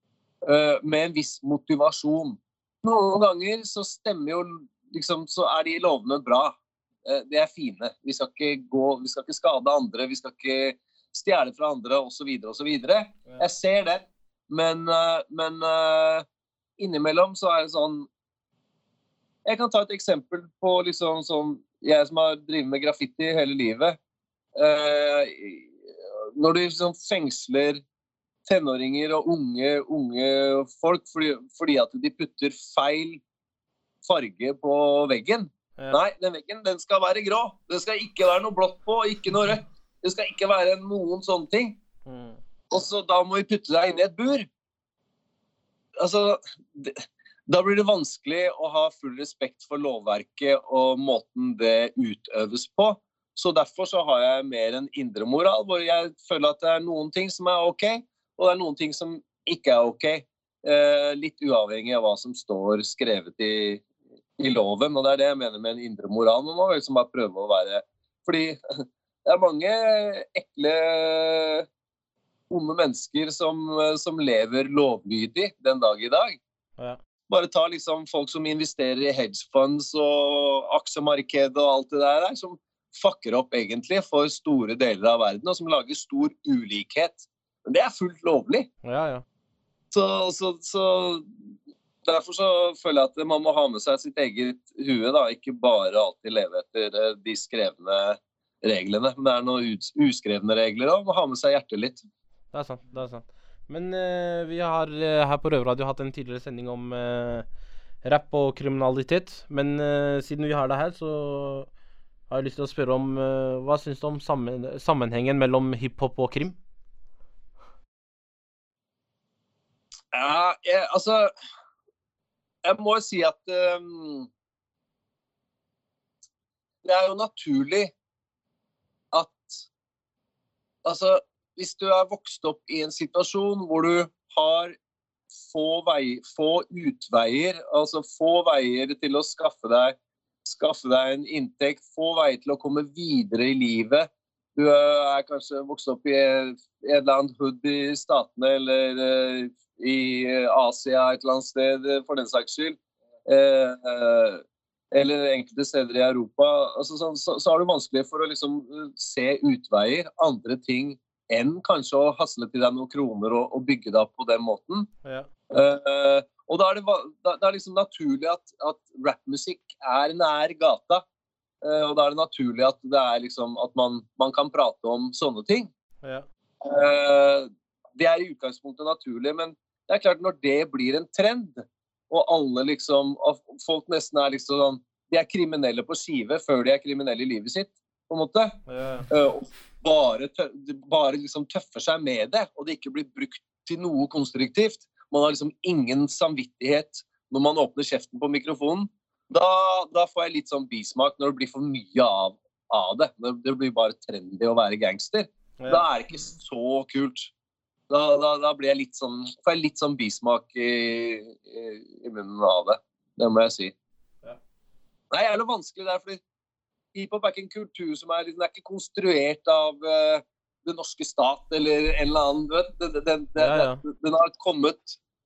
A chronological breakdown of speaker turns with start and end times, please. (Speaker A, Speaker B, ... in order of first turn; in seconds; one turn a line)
Speaker A: 0.4-16.2
Speaker A: 16.8-18.1
Speaker A: 19.4-24.0
Speaker A: 24.6-25.7
Speaker A: 26.4-27.8
Speaker A: 28.4-33.2
Speaker A: 34.0-41.8
Speaker B: 42.0-42.4
Speaker A: 42.7-44.5
Speaker A: 46.0-63.8
Speaker A: 64.4-68.6
Speaker A: 69.2-71.7
Speaker A: 72.5-76.4
Speaker A: 77.3-88.7
Speaker B: 88.8-89.2
Speaker A: 89.9-91.3
Speaker A: 92.0-102.0
Speaker B: 102.5-107.5
Speaker B: 108.0-111.7
Speaker B: 112.3-116.5
Speaker A: 120.1-121.3
Speaker A: 122.6-124.3
Speaker A: 126.8-127.9
Speaker A: 129.1-129.6
Speaker A: 130.8-134.7
Speaker A: 135.5-164.9
Speaker A: 165.5-171.0
Speaker A: 171.6-175.7
Speaker A: 176.6-188.6
Speaker B: 188.7-189.1
Speaker A: 189.1-207.3
Speaker B: 205.6-205.8
Speaker A: 207.9-213.7
Speaker A: 215.1-216.2
Speaker A: 216.9-225.0
Speaker B: 223.4-223.8